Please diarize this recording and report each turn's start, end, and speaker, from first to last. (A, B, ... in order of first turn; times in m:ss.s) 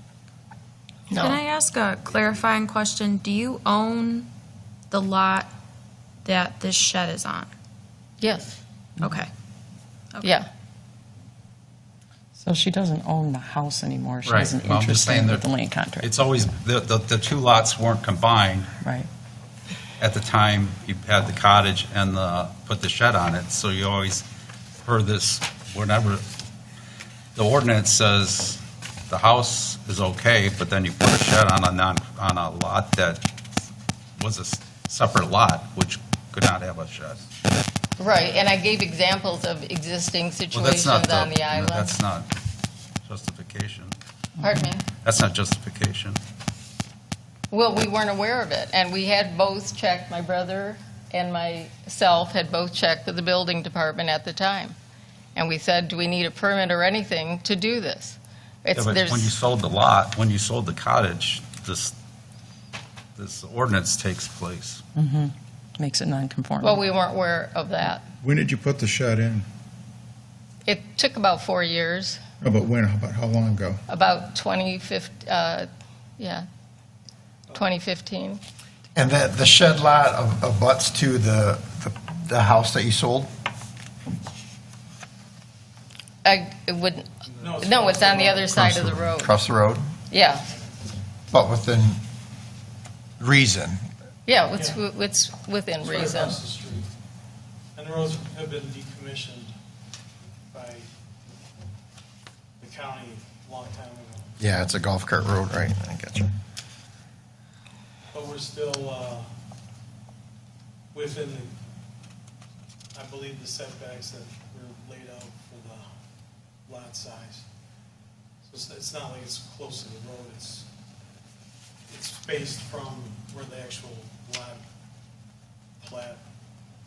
0:01.1-0:01.4 A
0:01.1-0:04.3 B
0:04.9-0:05.5 B
0:06.2-0:07.5 B
0:08.2-0:08.6 A
0:10.2-0:10.5 A
0:12.4-0:16.1 C
0:14.2-0:18.7 D
0:20.0-0:24.3 D
0:24.8-0:26.2 D
0:27.4-0:33.3 D
0:34.2-0:37.2 D
0:38.0-0:42.0 A
0:40.5-0:42.3 D
0:43.0-0:44.0 D
0:44.4-0:44.8 A
0:44.9-0:46.2 D
0:47.5-0:54.8 A
0:55.4-0:59.4 A
0:58.7-1:02.0 D
1:03.2-1:04.8 D
1:05.0-1:06.8 C
1:06.6-1:08.0 A
1:08.2-1:09.5 E
1:10.6-1:12.2 A
1:12.4-1:13.8 E
1:13.9-1:16.5 A
1:17.5-1:18.4 A
1:19.0-1:23.3 F
1:26.2-1:29.3 A
1:27.4-1:28.6 G
1:28.5-1:29.9 F
1:30.1-1:30.5 A
1:31.3-1:32.0 F
1:33.2-1:33.8 F
1:34.3-1:36.4 A
1:34.5-1:34.8 G
1:35.8-1:36.9 G
1:37.8-1:39.6 G
1:40.5-1:41.4 G
1:42.6-1:44.4 G
1:44.4-1:46.3 F
1:48.1-1:49.3 G
1:50.9-1:51.6 G
1:52.9-1:55.9 G
1:56.7-1:57.5 G
1:58.4-2:00.7 G
2:01.9-2:04.6 G
2:05.8-2:06.2 G